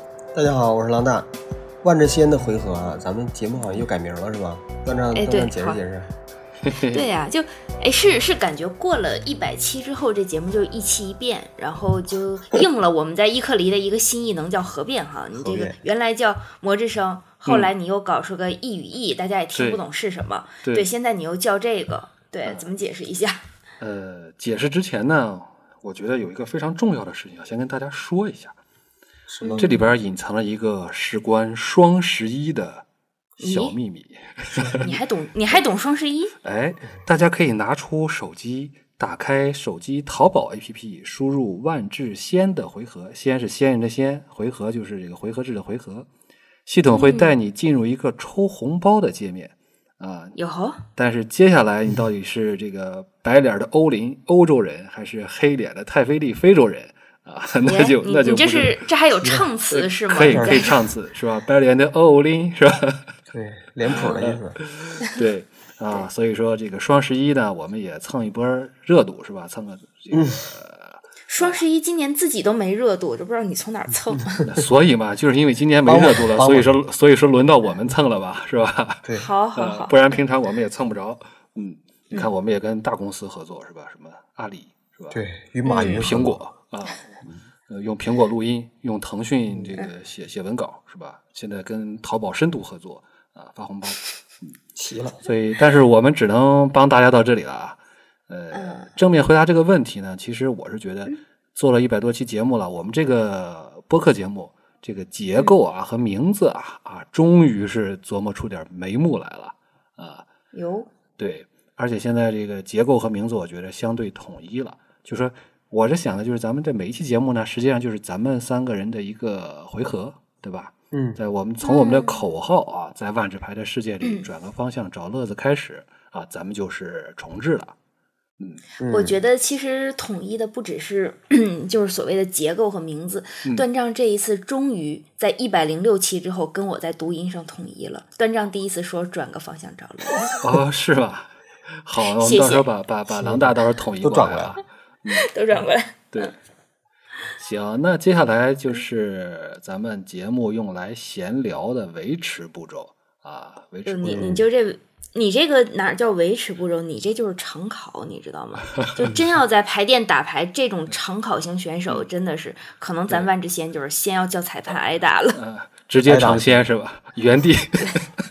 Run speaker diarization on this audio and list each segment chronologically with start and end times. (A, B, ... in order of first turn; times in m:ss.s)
0:00.3-0:01.3 A
0:01.8-0:06.1 A
0:05.1-0:05.8 B
0:06.6-0:07.1 C
0:06.9-0:23.4 B
0:15.3-0:15.8 A
0:17.4-0:17.7 C
0:19.5-0:19.8 C
0:20.6-0:20.9 C
0:22.4-0:22.7 C
0:23.8-0:28.6 C
0:29.3-0:29.8 A
0:29.4-0:29.8 B
0:29.6-0:32.8 C
0:33.4-0:33.8 B
0:33.4-0:34.9 C
0:34.8-0:36.3 B
0:36.4-0:46.1 C
0:46.6-0:50.4 C
0:46.9-0:47.3 B
0:50.3-0:50.8 B
0:51.0-0:58.8 C
0:57.6-1:00.8 B
0:59.2-0:59.5 A
0:59.7-1:03.0 C
1:00.3-1:00.6 A
1:03.3-1:04.6 A
1:03.8-1:11.6 C
1:10.1-1:10.4 A
1:11.3-1:14.4 B
1:14.4-1:25.2 C
1:15.8-1:16.7 A
1:19.2-1:20.0 B
1:25.1-1:26.4 A
1:25.6-1:26.1 B
1:25.9-1:27.1 C
1:27.7-1:34.1 C
1:34.8-1:35.2 A
1:35.2-1:37.8 C
1:38.3-1:50.2 C
1:38.5-1:38.9 B
1:50.5-1:50.9 B
1:51.2-2:07.7 C
2:00.9-2:01.2 A
2:01.6-2:02.3 B
2:04.0-2:04.3 B
2:08.8-2:09.2 A
2:08.9-2:20.4 B
2:20.4-2:21.3 C
2:21.8-2:25.3 C
2:22.0-2:22.7 B
2:23.1-2:24.6 A
2:25.2-2:26.3 B
2:27.4-2:34.4 C
2:33.8-2:45.4 B
2:34.0-2:34.4 A
2:45.4-2:48.1 C
2:46.0-2:46.6 A